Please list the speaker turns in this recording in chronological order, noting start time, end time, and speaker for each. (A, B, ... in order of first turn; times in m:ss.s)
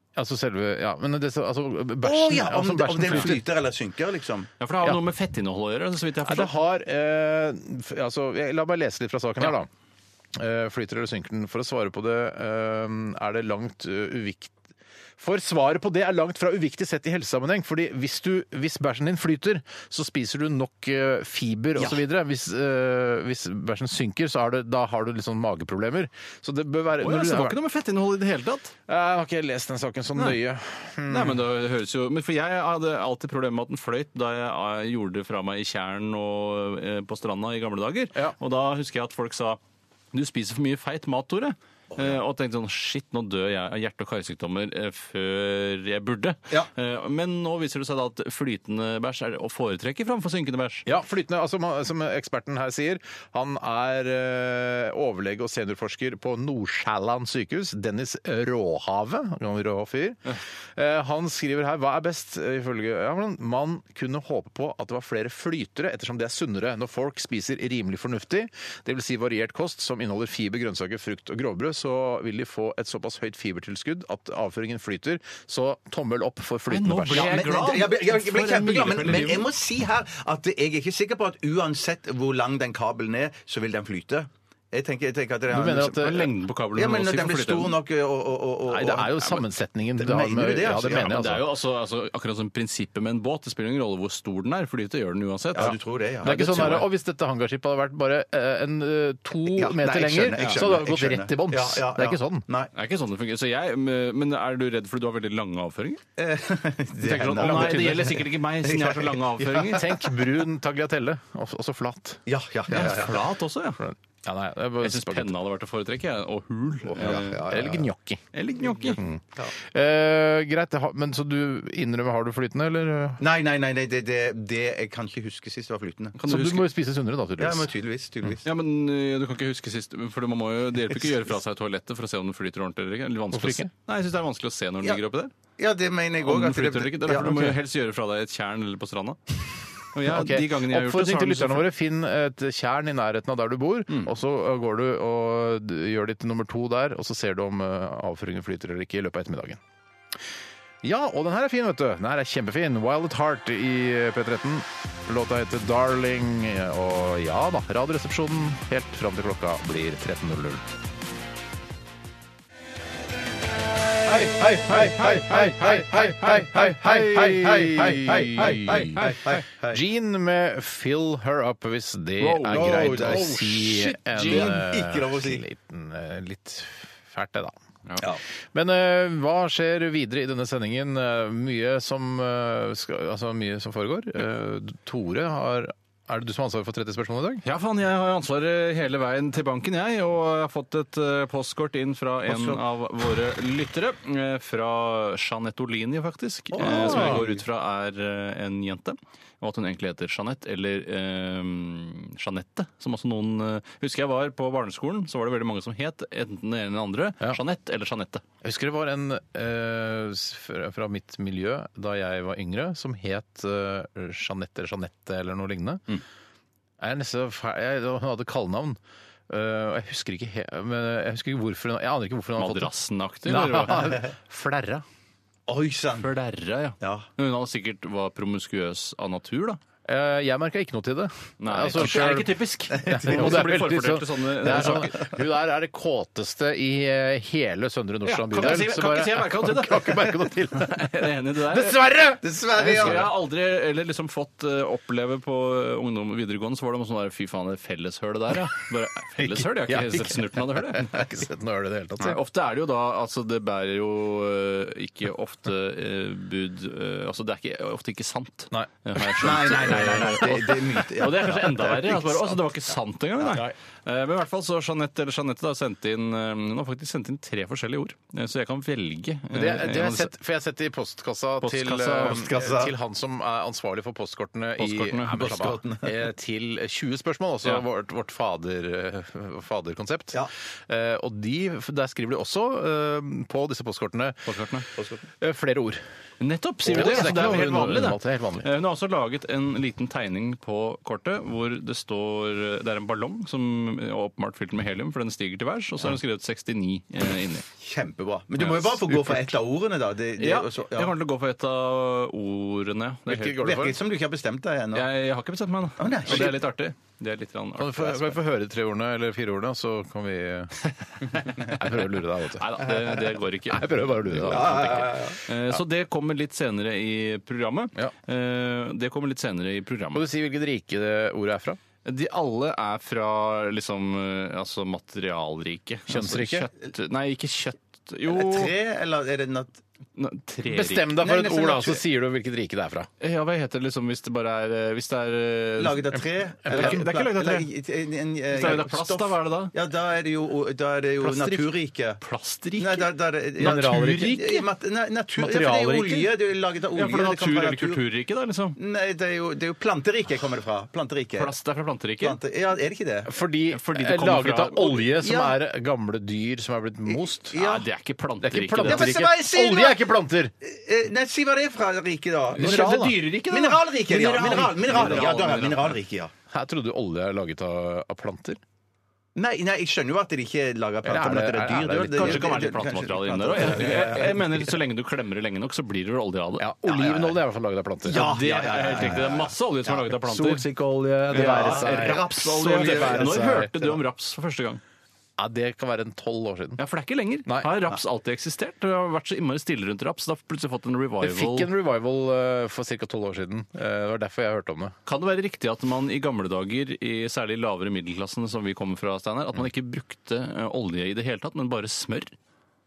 0:00.2-0:03.4 A
0:02.0-0:04.5 B
0:04.6-0:06.5 C
0:06.2-0:09.7 A
0:10.4-0:14.6 A
0:15.2-0:27.6 A
0:27.0-0:28.7 C
0:28.9-0:31.4 A
0:31.1-0:39.6 C
0:40.1-0:50.9 C
0:41.9-0:42.2 B
0:50.9-1:00.2 A
1:00.8-1:17.5 A
1:16.7-1:19.5 C
1:17.1-1:26.2 B
1:25.5-1:26.3 A
1:25.9-1:27.8 C
1:26.7-1:29.4 B
1:28.7-1:31.5 A
1:30.0-1:31.3 B
1:30.9-1:36.9 C
1:35.5-1:36.8 B
1:35.6-1:42.4 A
1:39.5-1:42.7 B
1:40.4-1:40.6 C
1:42.7-1:46.0 C
1:46.2-1:49.9 B
1:47.0-1:49.9 C
1:47.2-1:48.2 A
1:49.7-1:52.2 A
1:52.3-1:53.2 B
1:52.7-1:53.8 C
1:53.8-1:55.4 A
1:54.8-1:57.5 C
1:56.9-1:57.8 B
1:57.4-1:58.2 A
1:58.3-1:59.0 C
1:58.6-1:59.5 B
1:58.9-2:03.2 A
2:03.2-2:06.2 B
2:06.2-2:06.7 C
2:06.3-2:07.7 A
2:07.4-2:08.5 B
2:08.4-2:15.3 C
2:13.3-2:13.7 A
2:15.6-2:17.5 B
2:16.2-2:19.2 C
2:19.9-2:21.7 C
2:20.1-2:29.6 A
2:30.8-2:40.6 A
2:44.1-2:49.8 B
2:44.4-2:46.9 C
2:44.7-2:57.6 A
2:47.8-2:49.2 C
2:52.2-2:54.6 C
2:52.5-2:53.5 B
2:54.1-2:55.4 B
2:58.5-3:07.4 A
3:07.4-3:28.2 C
3:12.3-3:12.6 B
3:16.5-3:17.4 B
3:16.6-3:17.3 A
3:28.4-3:35.8 A
3:36.8-3:42.7 A
3:42.4-3:44.0 C
3:43.2-3:44.8 A
3:45.5-3:46.1 B
3:46.0-3:49.6 C
3:46.8-3:47.1 B
3:49.8-4:03.1 A
3:51.4-3:55.0 C
3:52.8-3:53.4 B
3:58.0-4:01.8 C
4:02.2-4:03.1 B
4:02.6-4:11.0 C
4:09.2-4:12.2 A
4:12.0-4:30.1 C
4:18.5-4:20.5 A
4:19.2-4:22.3 B
4:23.3-4:23.5 A
4:29.3-4:44.3 A
4:31.4-4:32.3 C
4:32.0-4:32.7 B
4:34.6-4:35.4 C
4:35.1-4:36.0 B
4:44.3-4:44.7 C
4:44.8-4:45.0 B
4:45.2-4:45.8 A
4:46.2-4:57.5 C
4:46.7-4:48.5 A
4:57.6-5:00.9 B
4:58.4-4:58.9 C
5:00.2-5:03.4 C
5:03.1-5:03.8 A
5:03.4-5:04.9 B
5:04.7-5:08.2 C
5:05.8-5:06.4 B
5:07.6-5:10.6 A
5:11.1-5:11.6 C
5:11.5-5:12.7 A
5:12.4-5:20.1 C
5:13.5-5:15.6 A
5:14.2-5:15.2 B
5:19.9-5:21.6 A
5:21.8-5:28.5 C
5:25.9-5:26.5 A
5:28.1-5:29.6 B
5:30.0-5:30.9 C
5:30.4-5:32.9 A
5:31.0-5:31.8 B
5:33.0-5:35.8 C
5:35.6-5:42.0 B
5:36.4-5:36.8 A
5:36.5-5:37.5 C
5:38.3-5:39.5 C
5:41.0-5:41.5 A
5:42.0-5:44.2 C
5:42.6-5:47.8 B
5:43.4-5:44.4 A
5:45.2-5:46.1 A
5:46.8-5:48.6 C
5:48.6-5:51.3 B
5:51.2-5:52.2 C
5:52.0-5:53.1 B
5:53.1-5:57.4 A
5:53.5-5:54.9 C
5:55.0-5:55.3 B
5:56.9-5:57.7 B
5:57.4-5:58.9 C
5:58.2-6:00.3 A
5:58.6-5:59.9 B
6:00.4-6:06.1 B
6:02.3-6:05.8 C
6:02.4-6:03.1 A
6:06.3-6:08.4 A
6:09.2-6:14.4 B
6:10.8-6:12.4 A
6:11.9-6:17.0 C
6:16.4-6:18.2 A
6:17.9-6:19.3 B
6:17.9-6:20.5 C
6:19.9-6:23.8 A
6:21.1-6:24.6 C
6:21.1-6:23.2 B
6:25.2-6:26.6 A
6:26.6-6:31.5 C
6:27.3-6:27.5 A
6:31.0-6:34.8 A
6:34.9-6:42.2 C